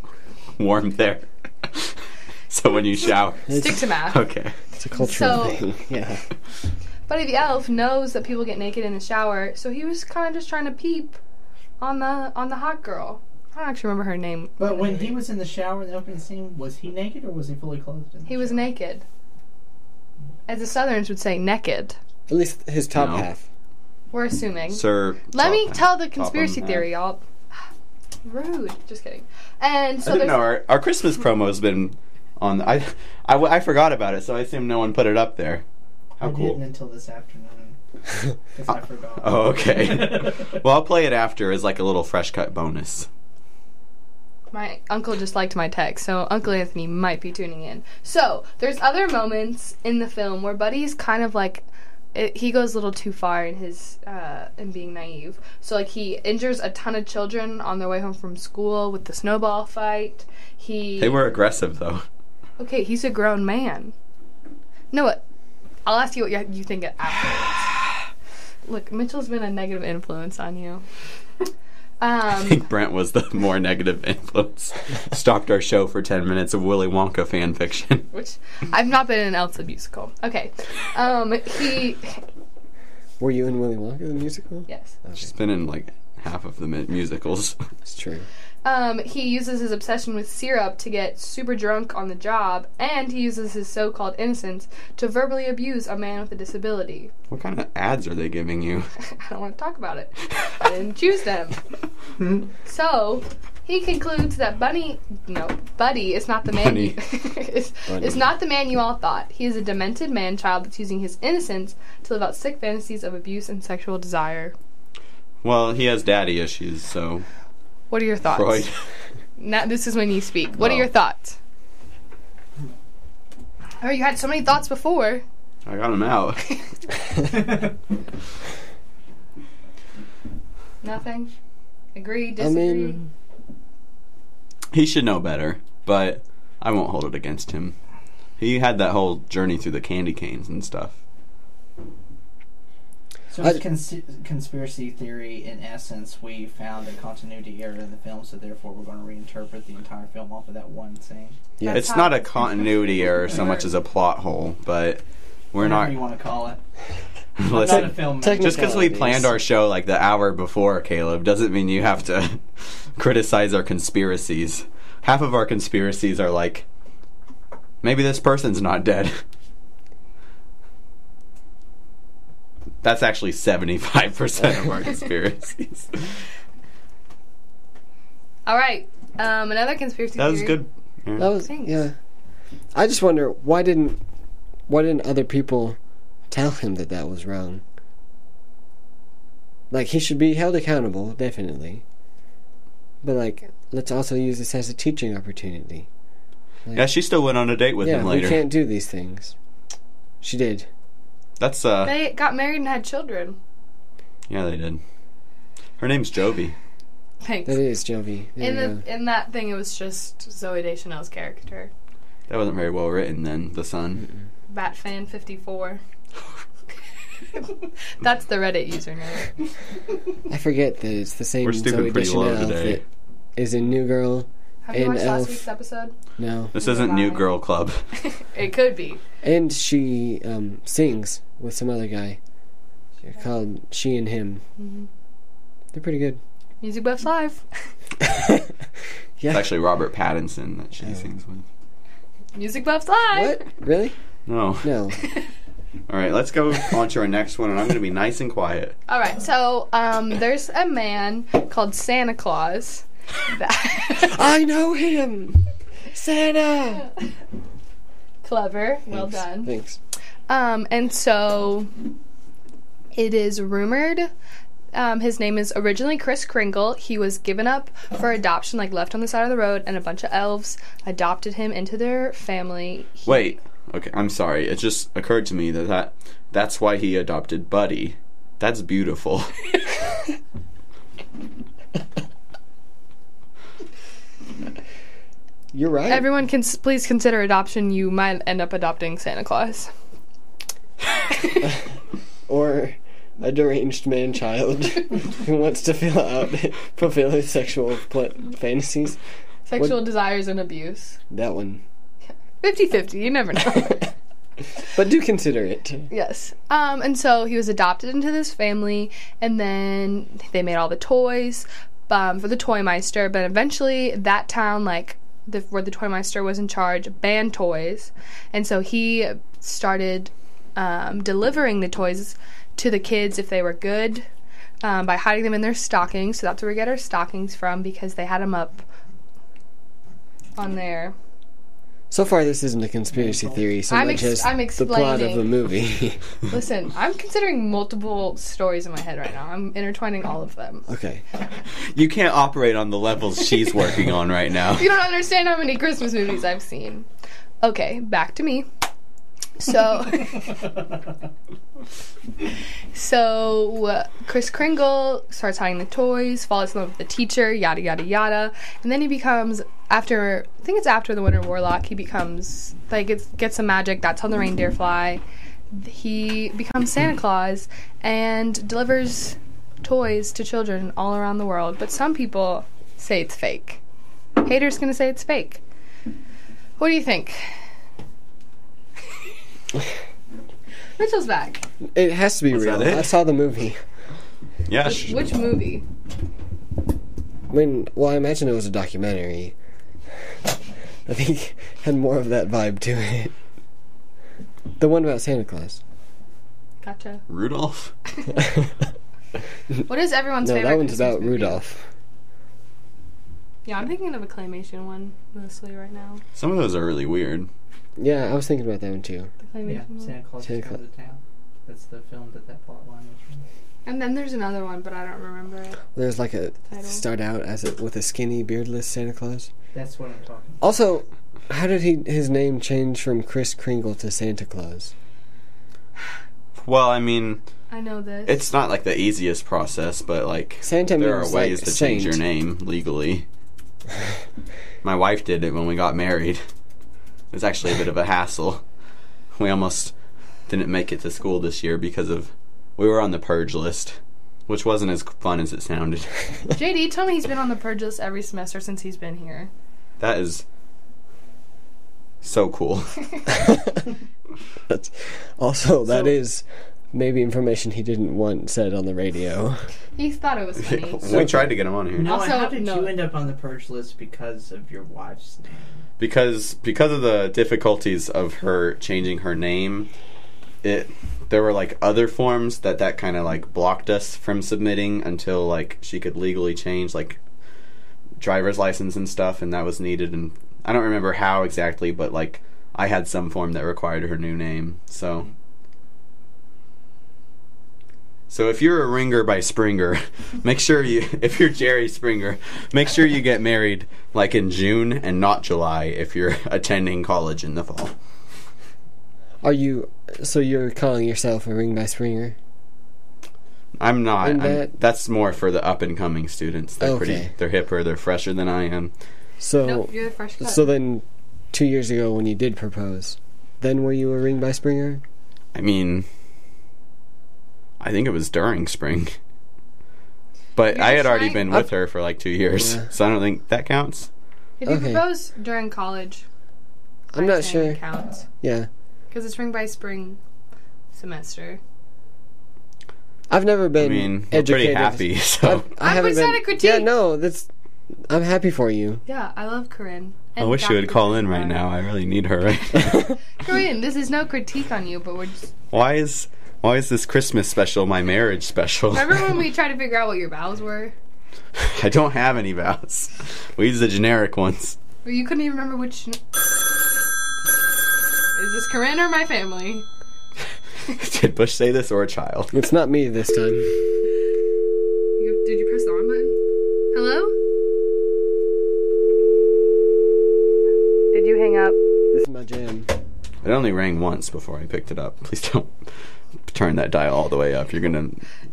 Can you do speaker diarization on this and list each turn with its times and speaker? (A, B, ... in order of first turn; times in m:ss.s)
0:00.6-0:02.0 A
0:02.5-0:04.6 A
0:03.5-0:03.8 B
0:03.5-0:04.2 C
0:04.8-0:06.2 B
0:05.0-0:05.6 C
0:07.1-0:11.2 C
0:11.8-0:15.1 C
0:14.6-0:18.7 D
0:18.3-0:19.0 C
0:20.5-0:22.0 C
0:22.3-0:23.4 B
0:23.0-0:23.2 A
0:24.1-0:27.6 C
0:24.7-0:26.9 A
0:28.2-0:30.5 C
0:30.0-0:35.6 A
0:36.2-0:36.6 A
0:36.2-0:37.8 D
0:38.5-0:40.5 D
0:39.2-0:43.1 A
0:44.5-1:01.4 C
1:01.0-1:02.0 A
1:02.6-1:03.9 C
1:04.9-1:05.2 C
1:05.9-1:07.9 C
1:08.6-1:10.8 C
1:12.0-1:12.7 C
1:12.4-1:18.1 A
1:18.1-1:22.2 C
1:23.2-1:25.3 B
1:24.7-1:25.0 C
1:25.2-1:27.6 A
1:27.9-1:28.3 B
1:28.6-1:37.1 C
1:37.3-1:38.9 A
1:39.0-1:41.6 C
1:42.6-1:54.5 C
1:46.5-1:47.0 A
1:47.9-1:48.3 B
1:55.4-1:57.2 A
1:57.9-1:58.7 C
1:58.3-1:58.8 A
1:59.4-2:01.4 C
2:00.6-2:00.9 A
2:03.8-2:05.2 C
2:05.7-2:06.4 A
2:10.8-2:11.3 C
2:12.0-2:13.0 C
2:12.4-2:13.1 B
2:14.7-2:17.8 A
2:18.4-2:21.0 A
2:23.3-2:31.4 D
2:31.6-2:32.0 B
2:31.6-2:33.7 C
2:31.7-2:36.0 A
2:35.6-2:36.6 D
2:37.4-2:42.4 A
2:37.5-2:38.9 D
2:37.6-2:39.3 B
2:43.0-2:46.6 A
2:47.8-2:49.2 A
2:52.8-2:56.1 A
2:58.5-3:00.6 C
3:00.2-3:01.3 A
3:01.2-3:02.0 B
3:01.4-3:01.8 C
3:02.8-3:04.0 B
3:04.7-3:05.8 B
3:06.3-3:07.6 B
3:09.7-3:11.8 B
3:13.0-3:15.9 B
3:16.8-3:18.4 A
3:17.8-3:19.3 B
3:20.2-3:20.7 B
3:21.4-3:22.0 A
3:21.8-3:23.4 C
3:24.3-3:24.8 A
3:25.8-3:26.5 A
3:27.2-3:27.6 C
3:27.5-3:28.8 B
3:28.4-3:31.7 C
3:32.3-3:34.1 A
3:34.5-3:35.8 C
3:37.3-3:39.3 C
3:40.3-3:42.8 B
3:41.4-3:42.8 A
3:43.4-3:45.5 B
3:44.6-3:45.9 C
3:46.2-3:46.5 B
3:46.5-3:47.8 A
3:46.6-3:47.3 C
3:48.0-3:49.0 C
3:49.2-3:52.2 B
3:53.2-3:54.4 B
3:54.6-3:54.9 C
3:55.7-3:56.2 B
3:56.6-3:57.4 C
3:58.0-3:58.5 B
3:59.2-3:59.5 B
3:59.3-4:01.4 A
4:02.4-4:03.5 C
4:03.1-4:04.0 B
4:04.3-4:04.7 A
4:04.6-4:05.0 B
4:05.9-4:08.8 A
4:08.9-4:14.2 C
4:14.0-4:15.4 B
4:15.9-4:16.9 B
4:18.2-4:19.5 C
4:18.9-4:19.8 B
4:20.3-4:21.7 C
4:22.9-4:24.1 C
4:24.7-4:33.4 C
4:33.1-4:39.4 A
4:45.5-4:46.1 B
4:45.9-4:49.7 C
4:52.3-4:59.0 B
4:59.5-5:01.0 C
5:01.1-5:01.6 B
5:02.4-5:03.9 C
5:04.7-5:05.9 B
5:05.9-5:24.0 C
5:24.6-5:28.6 C
5:30.4-5:31.0 C
5:31.9-5:36.0 B
5:33.7-5:35.3 C
5:36.3-5:40.7 C
5:40.7-5:41.0 B
5:41.7-5:44.7 A
5:44.5-5:46.9 C
5:47.4-5:48.5 C
5:49.4-5:50.4 C
5:52.7-6:13.6 C
6:14.2-6:15.4 C
6:16.6-6:17.3 C
6:20.8-6:21.5 C
6:21.7-6:23.6 B
6:22.3-6:22.9 A
6:24.5-6:25.0 A
6:24.6-6:25.6 C
6:27.3-6:29.3 B
6:30.9-6:33.1 B
6:34.6-6:35.6 B
6:36.6-6:37.0 C
6:37.1-6:37.7 A
6:39.7-6:41.4 C
6:40.2-6:41.7 B
6:43.4-6:46.0 C
6:46.2-6:47.3 A
6:47.8-6:49.1 B
6:49.3-6:49.9 C
6:49.4-6:53.2 D
6:50.2-6:50.6 B
6:53.7-6:55.6 C
6:55.8-6:59.3 B
6:56.5-6:56.8 C
6:59.5-7:00.5 D
7:00.4-7:04.7 B
7:06.4-7:07.2 A
7:07.5-7:08.2 C
7:08.1-7:13.0 A
7:10.4-7:12.0 B
7:14.6-7:16.2 A
7:17.1-7:18.4 A
7:19.1-7:19.7 A
7:20.3-7:25.9 A
7:26.3-7:29.3 C
7:29.8-7:30.2 A
7:32.0-7:32.8 A
7:33.2-7:33.6 B
7:34.5-7:39.5 B
7:39.8-7:41.2 C
7:40.4-7:41.9 A
7:40.9-7:41.4 B
7:41.7-7:45.7 D
7:41.8-7:42.8 C
7:45.8-7:49.7 A
7:50.4-7:57.0 A
7:58.0-8:05.1 A
8:08.1-8:17.7 A
8:19.2-8:22.2 B
8:23.6-8:28.7 A
8:24.0-8:24.5 B
8:26.6-8:27.1 B
8:29.2-8:34.8 B
8:29.4-8:30.5 C
8:35.4-8:35.9 A
8:37.6-8:39.0 A
8:40.4-8:43.9 A
8:40.5-8:41.4 C
8:42.4-8:42.7 B
8:44.4-8:46.0 C
8:44.5-8:44.9 B
8:46.9-8:47.6 B
8:47.0-8:48.1 C
8:48.2-8:48.5 B
8:48.9-8:50.0 C
8:50.7-8:51.4 C
8:53.1-8:57.3 B
8:53.6-8:55.5 A
8:55.6-8:56.7 C
8:57.9-8:58.8 B
8:58.9-9:01.4 C
9:00.2-9:02.8 A
9:03.2-9:05.3 C
9:05.5-9:09.2 A
9:08.7-9:10.7 C
9:11.4-9:14.6 A
9:14.8-9:16.0 C
9:18.2-9:19.7 C
9:20.7-9:22.3 A
9:22.3-9:23.6 B
9:25.0-9:26.2 C
9:26.7-9:27.2 C
9:30.9-9:31.6 C
9:31.9-9:32.7 B
9:33.2-9:35.5 A
9:36.3-9:38.0 A